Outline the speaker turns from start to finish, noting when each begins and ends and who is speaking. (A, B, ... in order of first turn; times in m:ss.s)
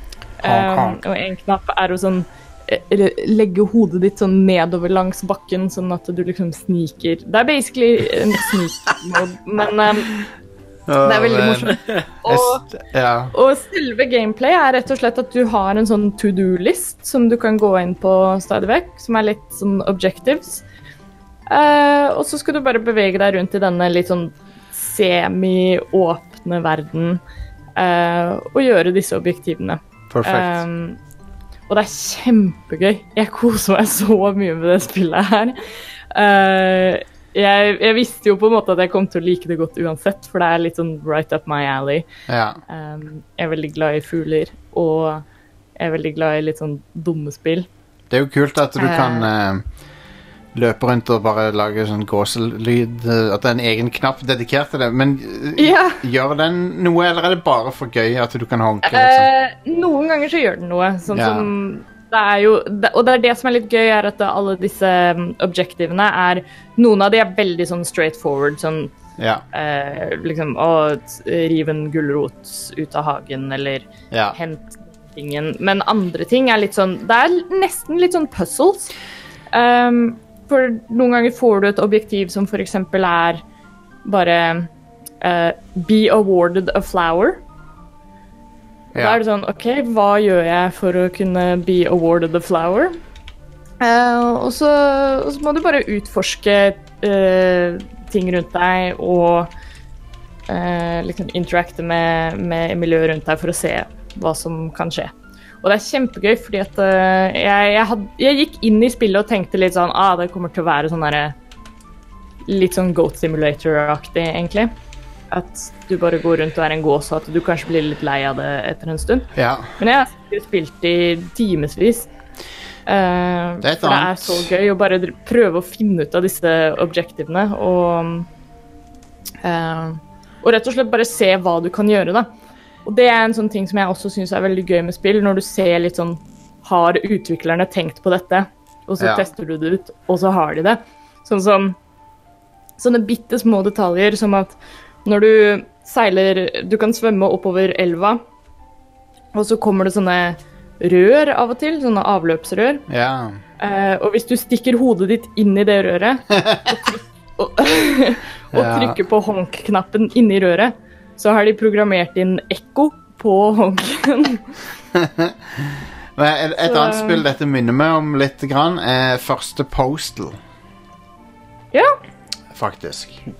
0:00.4-0:10.3 A
0:00.4-0:01.0 B
0:10.9-0:13.3 B
0:11.0-0:12.7 A
0:13.3-0:20.6 A
0:21.5-0:27.2 A
0:27.8-0:31.0 A
0:30.1-0:30.6 B
0:31.7-0:35.6 A
0:36.1-0:42.1 A
0:42.3-0:42.6 B
0:42.7-0:45.2 A
0:45.8-0:47.7 A
0:48.1-0:49.6 B
0:48.8-0:49.3 A
0:50.5-0:59.3 B
0:55.6-0:56.0 A
0:58.8-1:08.9 A
1:01.1-1:01.5 B
1:09.2-1:09.4 B
1:09.5-1:18.9 A
1:14.1-1:14.4 B
1:19.5-1:23.4 A
1:24.0-1:24.7 A
1:25.2-1:27.4 A
1:28.9-1:33.0 A
1:33.8-1:39.5 A
1:40.5-1:45.1 A
1:45.6-1:51.3 A
1:52.5-1:54.7 A
1:55.3-2:02.1 A
1:59.4-1:59.7 B
2:02.9-2:08.3 A
2:03.6-2:04.5 B
2:09.4-2:12.3 A
2:12.8-2:21.8 A
2:19.0-2:19.3 B
2:22.8-2:28.2 A
2:29.3-2:32.8 A
2:32.9-2:33.4 B
2:33.6-2:44.4 A
2:38.5-2:39.0 B
2:44.9-2:50.4 B
2:46.6-2:47.2 A
2:52.5-2:53.2 B